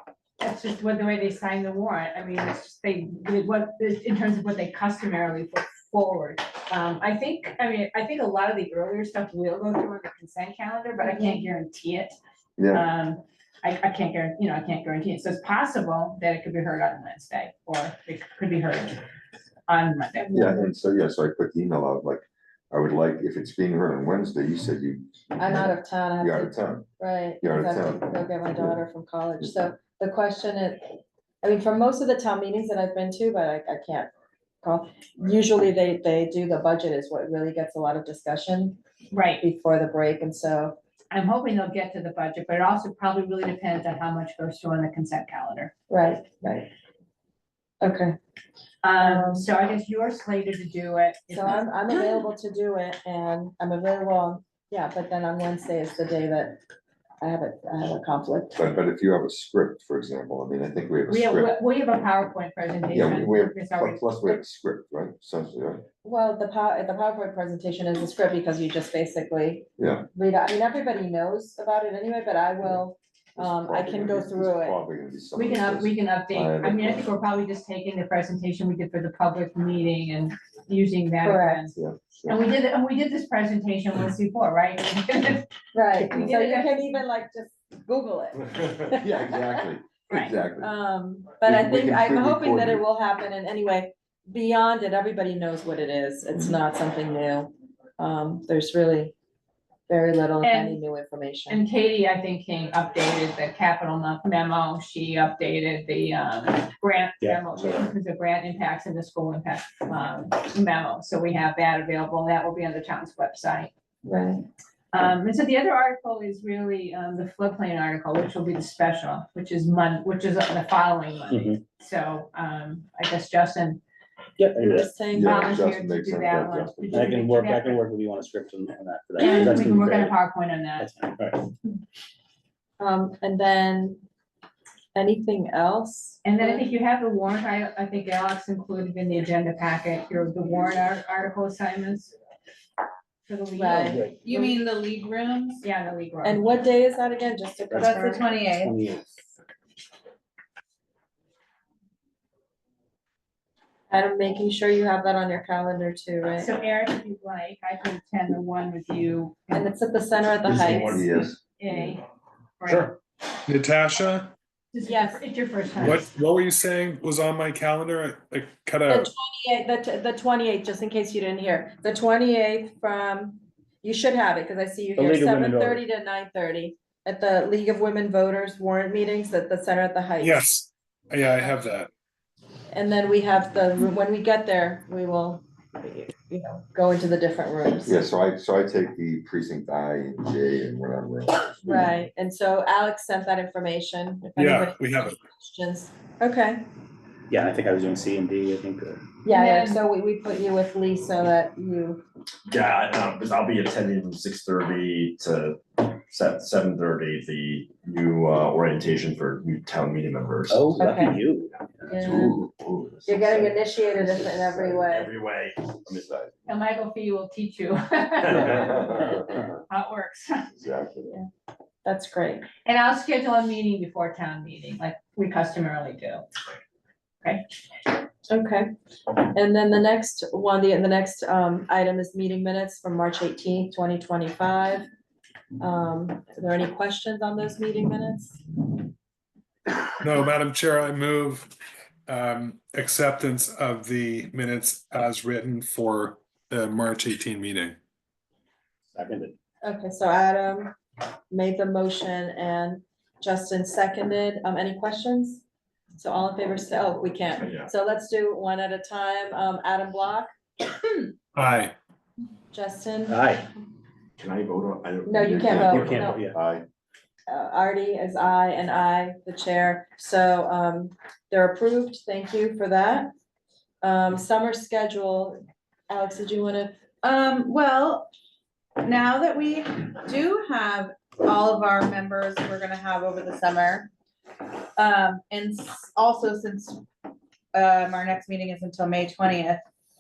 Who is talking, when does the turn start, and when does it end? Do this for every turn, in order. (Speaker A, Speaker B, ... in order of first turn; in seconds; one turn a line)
Speaker A: 0.4-12.2
Speaker B: 11.0-11.5
Speaker C: 12.6-12.9
Speaker A: 12.7-19.0
Speaker A: 19.7-20.6
Speaker C: 20.3-26.9
Speaker B: 25.4-30.8
Speaker C: 27.4-28.8
Speaker B: 31.4-34.1
Speaker B: 34.6-38.8
Speaker A: 39.1-39.4
Speaker B: 39.4-40.8
Speaker A: 41.1-45.7
Speaker B: 45.9-46.7
Speaker B: 47.8-48.2
Speaker A: 48.8-52.2
Speaker B: 48.9-49.5
Speaker B: 51.3-56.6
Speaker B: 57.2-58.6
Speaker C: 58.6-61.5
Speaker A: 61.1-64.0
Speaker C: 62.9-65.8
Speaker B: 66.0-74.8
Speaker C: 69.8-70.1
Speaker C: 73.4-77.1
Speaker A: 75.3-87.0
Speaker B: 81.2-81.6
Speaker C: 81.8-82.4
Speaker B: 85.7-89.6
Speaker C: 88.9-90.7
Speaker B: 90.6-99.1
Speaker C: 91.4-92.8
Speaker B: 99.9-101.6
Speaker A: 100.4-100.8
Speaker A: 101.5-113.7
Speaker D: 107.2-107.9
Speaker B: 114.0-114.4
Speaker A: 114.9-123.8
Speaker D: 121.3-121.6
Speaker D: 124.4-124.9
Speaker B: 124.6-125.5
Speaker A: 125.1-127.8
Speaker C: 125.1-127.2
Speaker D: 126.9-130.2
Speaker A: 129.2-130.9
Speaker D: 130.8-131.4
Speaker B: 132.8-134.0
Speaker B: 134.9-136.7
Speaker A: 136.2-142.1
Speaker A: 143.3-144.1
Speaker B: 143.6-144.5
Speaker E: 144.1-145.6
Speaker A: 145.6-146.4
Speaker B: 146.2-148.2
Speaker E: 147.8-148.8
Speaker D: 148.5-149.1
Speaker B: 153.9-156.5
Speaker A: 156.4-159.7
Speaker B: 159.5-161.1
Speaker F: 160.5-160.8
Speaker A: 160.5-162.1
Speaker C: 160.8-161.9
Speaker A: 162.6-162.9
Speaker G: 163.5-164.3
Speaker A: 164.7-166.1
Speaker B: 164.8-165.2
Speaker G: 165.8-169.1
Speaker B: 168.9-180.4
Speaker D: 175.0-175.8
Speaker G: 180.2-181.9
Speaker B: 182.7-188.1
Speaker C: 187.9-191.9
Speaker B: 191.7-196.7
Speaker G: 194.4-195.2
Speaker D: 197.3-199.0
Speaker B: 199.2-202.0
Speaker A: 199.3-199.8
Speaker F: 202.5-210.9
Speaker D: 210.5-212.0
Speaker B: 210.8-211.2
Speaker F: 211.5-216.3
Speaker B: 211.9-212.4
Speaker C: 212.0-212.3
Speaker B: 213.1-215.1
Speaker C: 215.9-216.3
Speaker A: 216.5-220.5
Speaker C: 218.4-219.3
Speaker F: 218.5-218.8
Speaker C: 220.5-221.2
Speaker B: 221.8-222.5
Speaker A: 222.7-226.3
Speaker B: 228.3-228.7
Speaker B: 229.2-234.9
Speaker B: 235.6-238.4
Speaker G: 240.0-241.5
Speaker G: 242.1-247.8
Speaker D: 248.9-249.3
Speaker B: 249.6-250.7
Speaker B: 251.3-255.4
Speaker B: 255.9-261.1
Speaker F: 257.3-257.7
Speaker G: 261.4-261.8
Speaker B: 262.5-263.2
Speaker D: 263.1-263.5
Speaker F: 264.2-266.1
Speaker B: 265.1-266.2
Speaker C: 265.3-266.6
Speaker D: 265.7-266.4
Speaker B: 267.3-273.1
Speaker B: 273.8-276.8
Speaker E: 277.0-278.1
Speaker E: 278.8-283.9
Speaker E: 284.8-286.9
Speaker E: 287.5-289.6